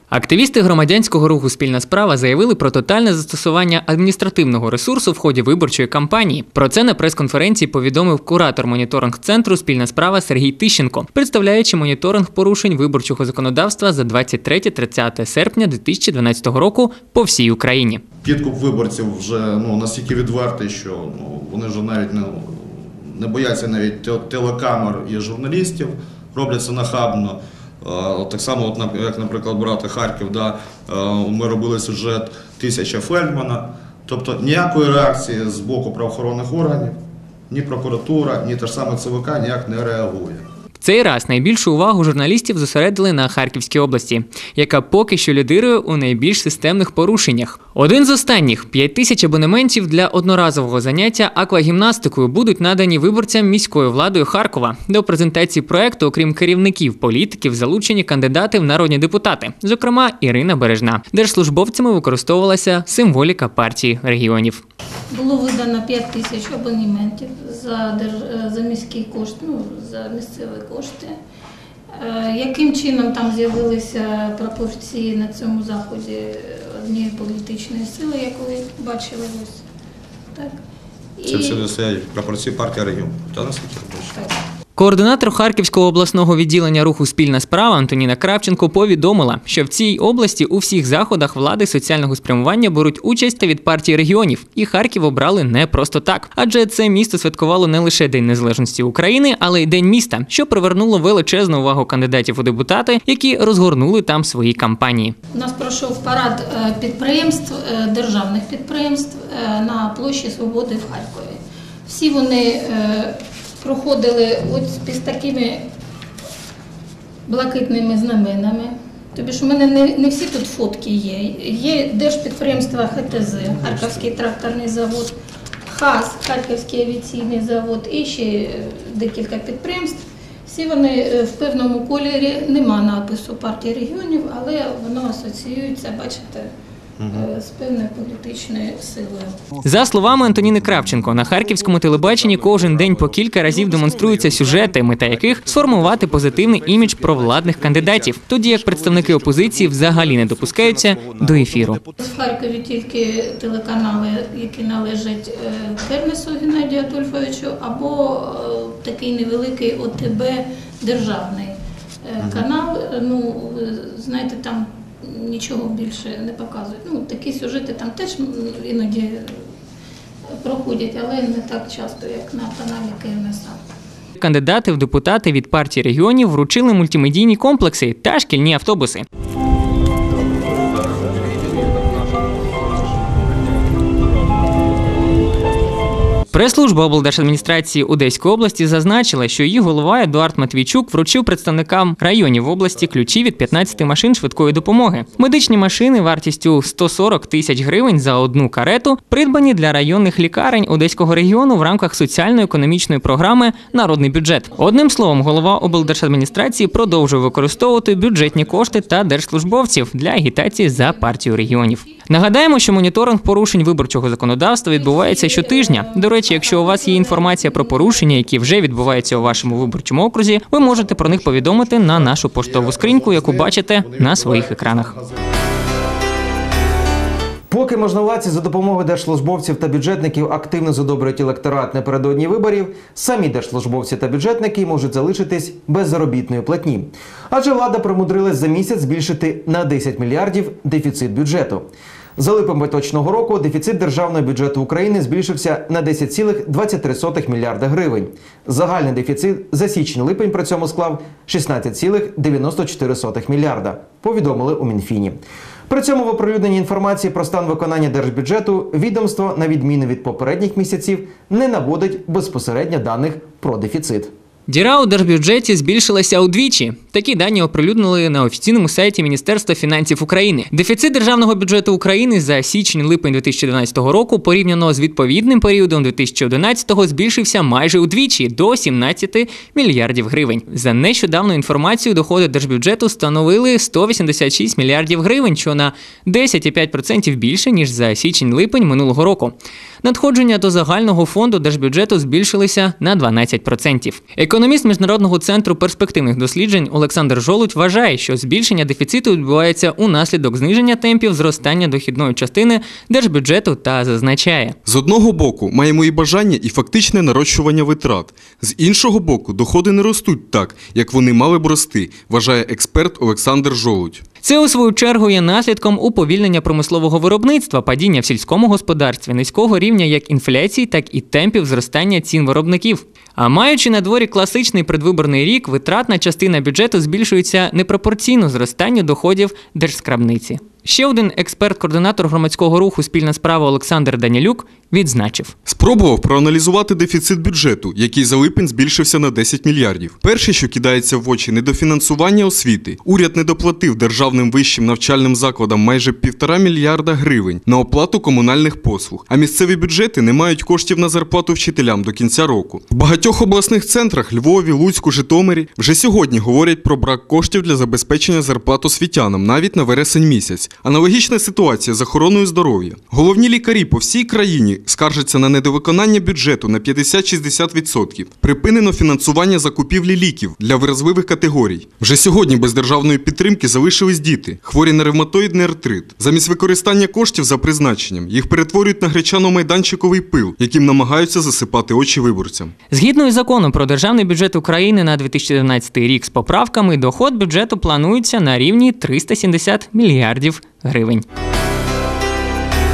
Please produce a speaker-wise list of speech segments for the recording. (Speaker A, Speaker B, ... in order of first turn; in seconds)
Speaker A: 0.1-18.0, 40.8-64.6, 84.8-105.2, 139.6-151.8, 174.2-179.1, 186.3-224.9, 264.5-304.6, 314.2-335.3, 382.7-391.0
Speaker B: 18.2-37.0, 37.5-40.5, 81.2-84.2, 137.0-137.3, 162.2-162.5, 180.8-182.1, 220.6-225.4
Speaker C: 65.1-71.2, 72.0-79.6, 81.2-81.7, 105.3-115.7, 117.3-125.2, 125.7-136.5, 137.1-139.4, 152.0-169.4, 170.4-173.6, 210.6-211.6, 214.8-218.1
Speaker D: 227.5-264.1
Speaker E: 304.7-314.0, 335.5-382.5